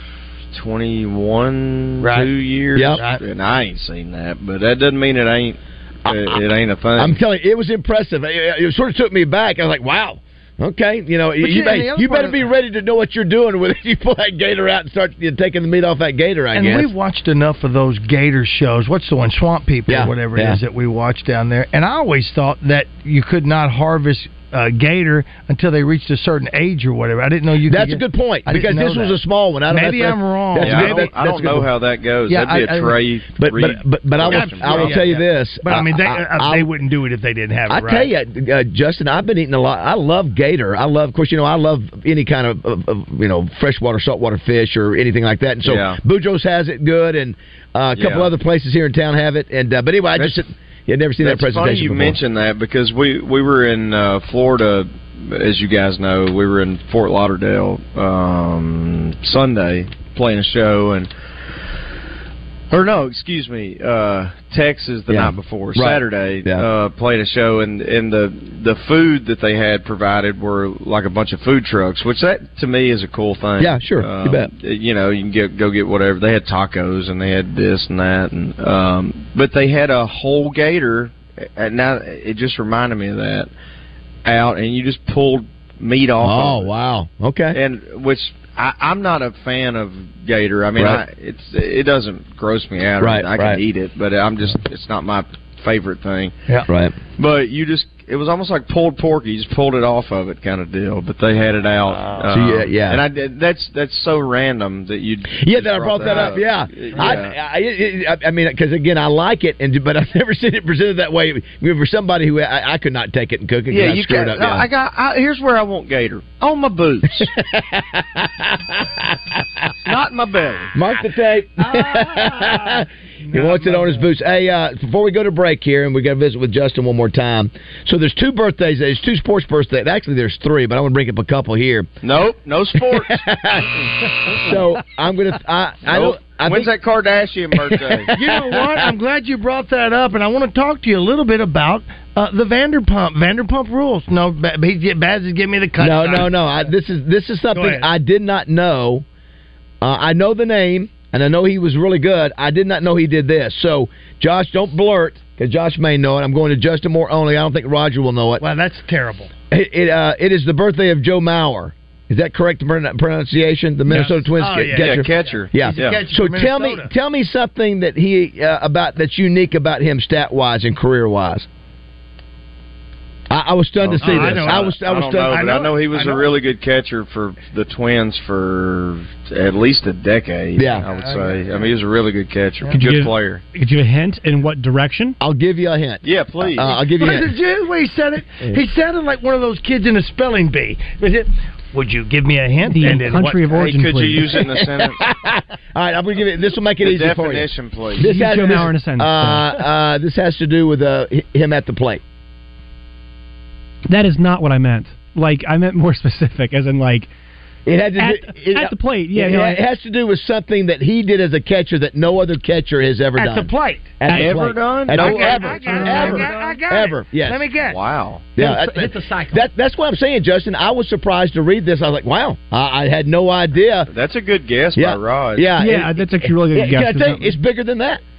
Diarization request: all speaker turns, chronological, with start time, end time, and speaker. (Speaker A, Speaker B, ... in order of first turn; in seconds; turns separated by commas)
Speaker A: 0.5-7.2, Speaker B: 2.0-2.3, Speaker B: 3.0-3.2, Speaker C: 6.1-6.4, Speaker C: 7.0-16.9, Speaker B: 11.4-12.5, Speaker B: 16.5-31.1, Speaker C: 19.9-20.6, Speaker C: 27.7-31.7, Speaker A: 30.6-35.1, Speaker B: 32.3-33.0, Speaker C: 33.4-36.7, Speaker B: 34.3-38.1, Speaker C: 37.7-52.2, Speaker A: 45.6-46.0, Speaker A: 48.0-48.3, Speaker A: 51.2-61.1, Speaker A: 62.7-83.5, Speaker C: 65.1-66.7, Speaker C: 73.6-74.5, Speaker A: 84.2-86.7, Speaker C: 86.2-87.6, Speaker A: 87.5-96.3, Speaker C: 90.8-91.0, Speaker C: 93.0-93.6, Speaker C: 96.7-97.0, Speaker A: 97.2-107.3, Speaker C: 102.3-103.0, Speaker C: 105.4-114.7, Speaker B: 106.0-106.3, Speaker A: 113.7-117.3, Speaker C: 117.2-118.3, Speaker A: 119.8-120.7, Speaker C: 120.8-131.9, Speaker B: 121.6-124.1, Speaker A: 132.0-133.3, Speaker C: 132.9-136.7, Speaker A: 135.9-138.1, Speaker C: 137.6-138.8, Speaker B: 138.1-146.4, Speaker C: 145.8-149.1, Speaker B: 147.5-147.9, Speaker C: 149.8-158.4, Speaker B: 158.4-159.3, Speaker C: 159.5-171.5, Speaker B: 163.9-166.9, Speaker A: 164.7-166.0, Speaker C: 173.3-175.4, Speaker A: 173.8-183.4, Speaker B: 174.0-176.3, Speaker C: 180.6-180.9, Speaker B: 180.9-181.7, Speaker D: 182.7-185.2, Speaker C: 185.2-187.3, Speaker A: 186.0-186.8, Speaker B: 187.0-193.4, Speaker D: 192.6-194.4, Speaker A: 193.5-195.1, Speaker C: 194.8-202.0, Speaker A: 196.8-198.0, Speaker D: 198.0-199.5, Speaker D: 203.9-207.1, Speaker C: 207.7-217.4, Speaker D: 208.0-209.6, Speaker B: 213.2-214.0, Speaker D: 214.1-214.5, Speaker A: 214.1-216.3, Speaker B: 214.9-217.8, Speaker D: 215.7-216.3, Speaker A: 217.7-218.2, Speaker C: 218.4-223.9, Speaker B: 218.4-219.4, Speaker A: 223.9-225.5, Speaker C: 224.8-228.0, Speaker D: 225.6-227.4